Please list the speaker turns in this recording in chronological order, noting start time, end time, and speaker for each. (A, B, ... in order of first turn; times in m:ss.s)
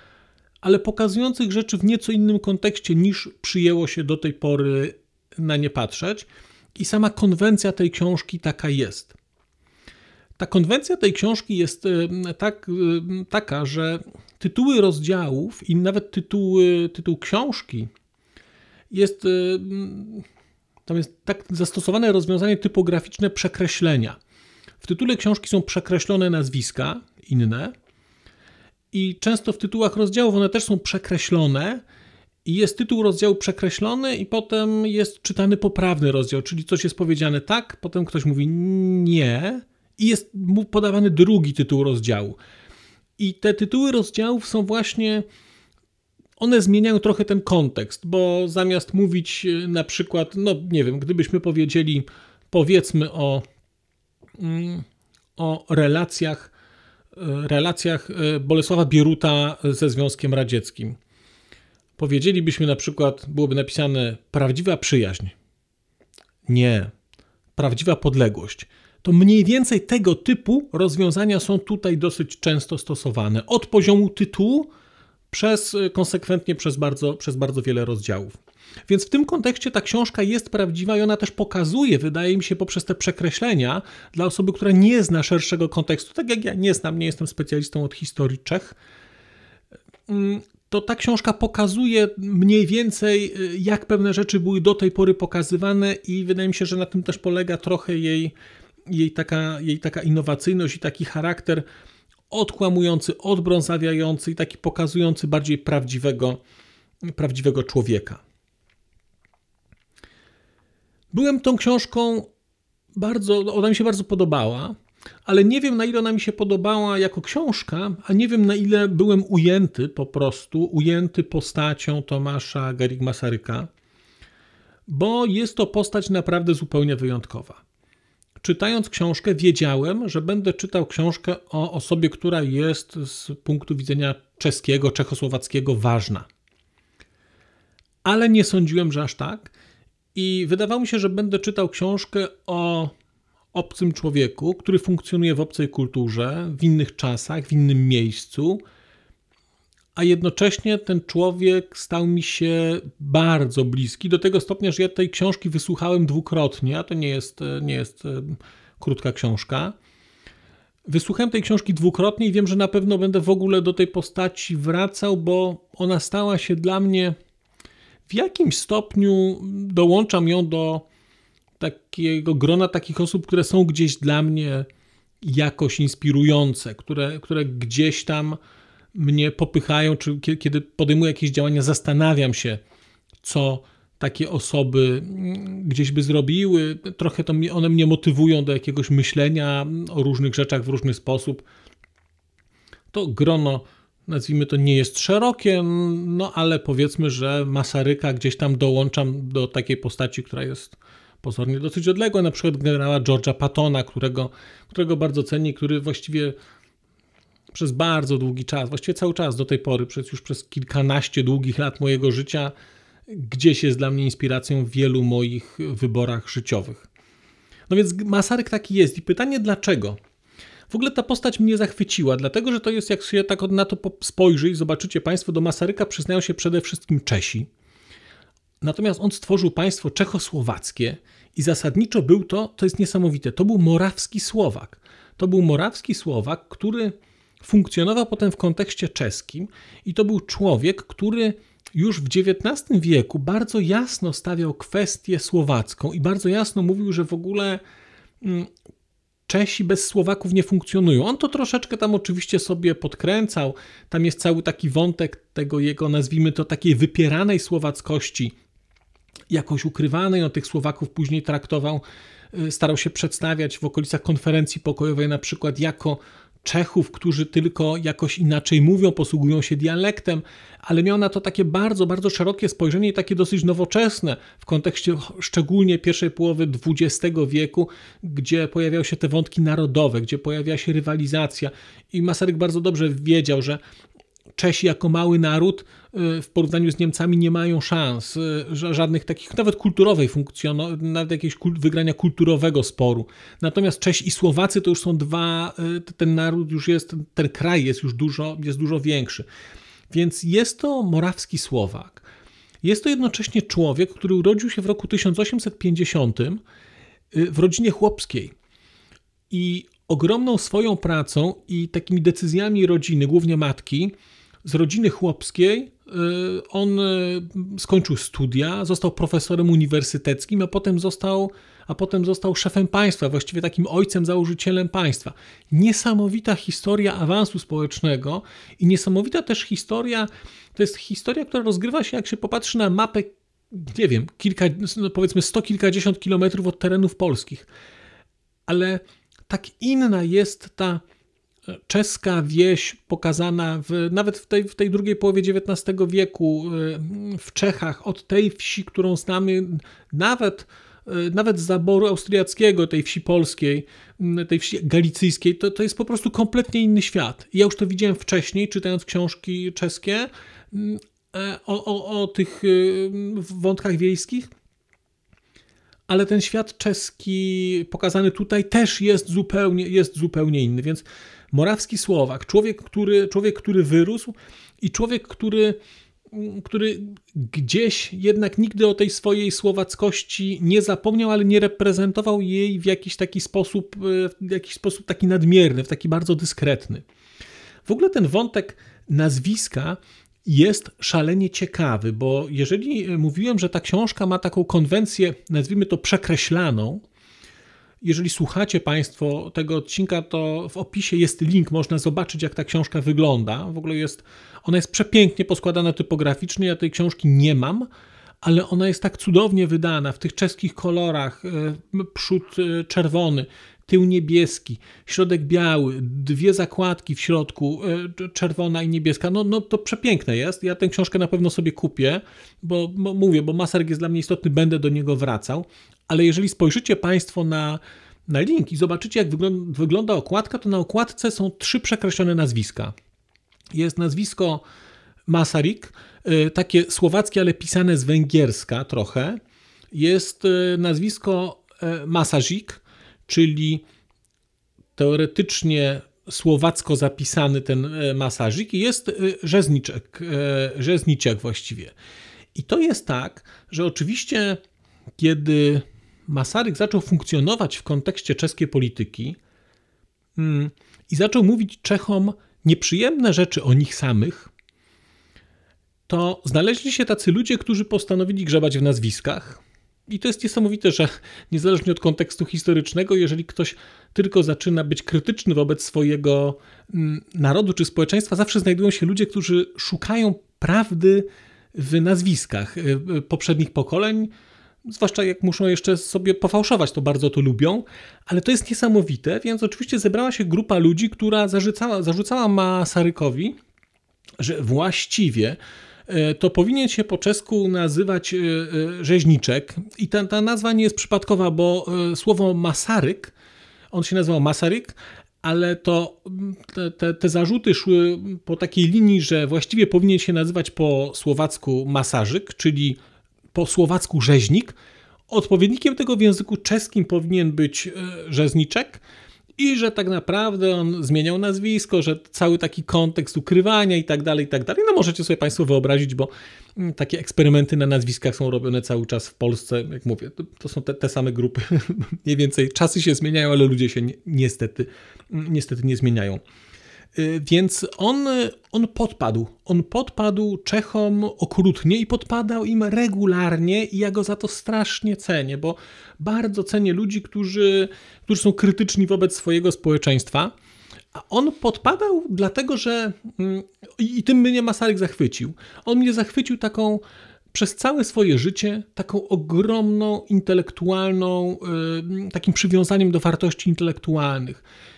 0:00.6-0:09.2 A
0:10.4-0:17.9 A
0:18.9-0:20.3 A
0:20.9-0:24.2 A
0:24.8-0:27.7 A
0:28.9-0:31.8 A
0:32.4-0:42.4 A
0:43.2-0:45.2 A
0:46.4-0:53.4 A
0:54.4-0:56.5 A
0:57.2-1:01.0 A
1:02.0-1:05.3 A
1:06.5-1:06.9 A
1:07.6-1:14.7 A
1:15.3-1:28.8 A
1:30.1-1:38.3 A
1:38.9-1:41.6 A
1:42.3-1:46.4 A
1:47.0-1:48.2 A
1:51.1-1:52.3 A
1:53.0-1:54.8 A
1:55.3-2:03.7 A
2:04.9-2:07.6 A
2:08.4-2:16.3 A
2:18.0-2:19.5 A
2:20.1-2:22.9 A
2:23.5-2:28.6 A
2:30.0-2:39.8 A
2:40.9-2:47.2 A
2:48.1-2:50.8 A
2:51.6-2:54.7 A
2:55.2-2:58.4 A
2:58.9-3:02.6 A
3:03.2-3:11.4 A
3:12.9-3:26.4 A
3:27.5-3:32.5 A
3:33.1-3:36.9 A
3:37.7-3:40.0 A
3:40.7-3:47.5 A
3:48.6-4:07.6 A
4:08.2-4:08.5 A
4:09.3-4:18.4 A
4:19.3-4:43.6 A
4:44.4-4:59.3 A
4:59.9-5:02.0 A
5:02.6-5:06.4 A
5:07.1-5:08.3 A
5:09.3-5:37.5 A
5:38.5-5:40.8 A
5:41.5-6:04.3 A
6:05.9-6:15.6 A
6:16.1-6:26.8 A
6:27.7-6:36.8 A
6:37.8-6:47.7 A
6:48.2-7:12.8 A
7:13.5-7:14.4 A
7:15.1-7:19.2 A
7:19.7-7:23.6 A
7:24.8-7:31.7 A
7:32.4-7:34.4 A
7:35.0-7:39.2 A
7:40.2-7:44.3 A
7:45.9-8:04.1 A
8:04.6-8:13.4 A
8:14.2-8:23.1 A
8:23.7-8:32.8 A
8:33.3-8:34.6 A
8:35.1-8:38.8 A
8:39.4-8:56.2 A
8:57.0-9:10.3 A
9:11.0-9:24.4 A